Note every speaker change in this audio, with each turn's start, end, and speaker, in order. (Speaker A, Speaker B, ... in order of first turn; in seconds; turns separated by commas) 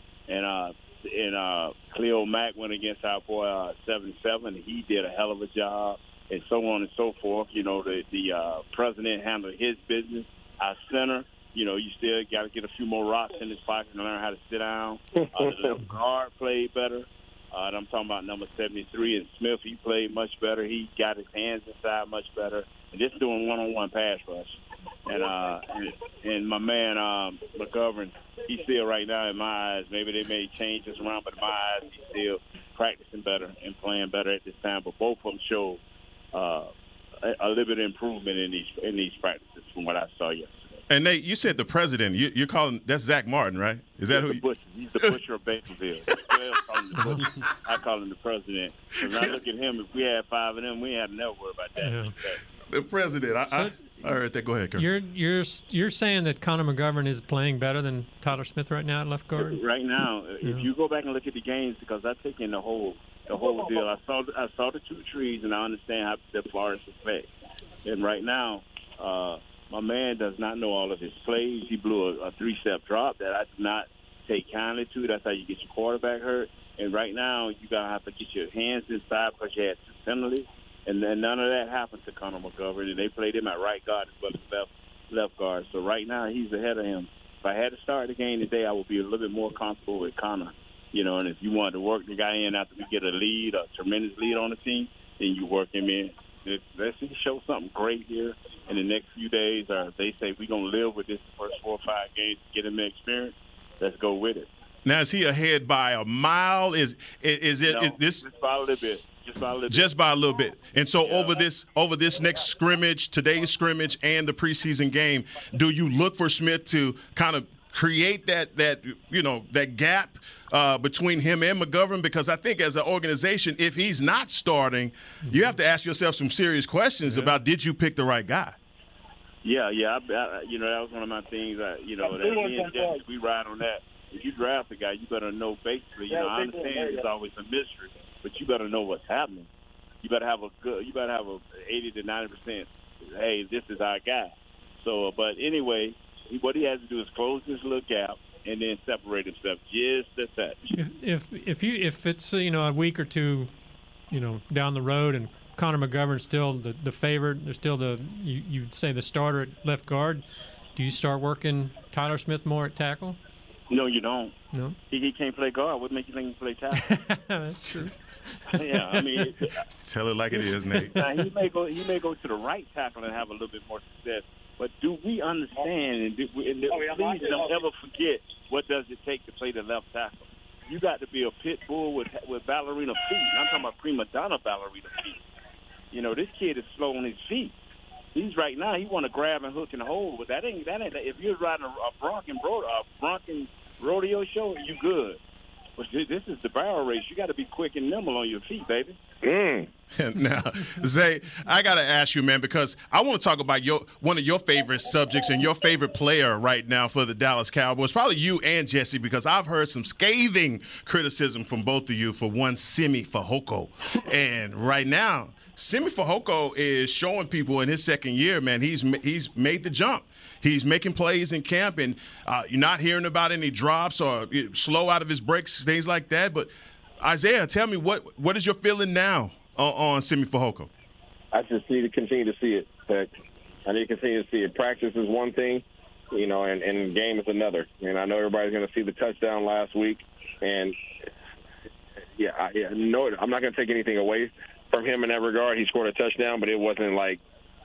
Speaker A: 0.3-35.8, Speaker B: 15.4-15.7, Speaker A: 36.3-36.7, Speaker A: 37.2-40.8, Speaker C: 40.9-44.4, Speaker A: 44.1-52.4, Speaker D: 47.0-47.3, Speaker C: 49.1-49.4, Speaker D: 51.8-52.1, Speaker C: 52.7-54.9, Speaker D: 54.8-59.6, Speaker A: 59.4-67.3, Speaker D: 60.4-60.7, Speaker A: 67.8-104.5, Speaker C: 104.8-108.3, Speaker A: 107.7-109.9, Speaker C: 109.7-128.6, Speaker A: 111.0-111.4, Speaker A: 129.4-139.5, Speaker A: 140.0-150.8, Speaker D: 150.7-153.5, Speaker D: 154.1-160.2, Speaker D: 160.8-163.2, Speaker A: 163.7-164.4, Speaker A: 164.9-166.9, Speaker D: 166.7-169.3, Speaker A: 168.5-169.6, Speaker C: 169.8-171.0, Speaker A: 170.9-185.2, Speaker A: 185.9-187.5, Speaker A: 188.2-195.2, Speaker A: 195.8-199.0, Speaker B: 199.2-199.7, Speaker C: 199.9-230.7, Speaker B: 231.3-233.1, Speaker B: 233.7-240.8, Speaker B: 242.2-247.2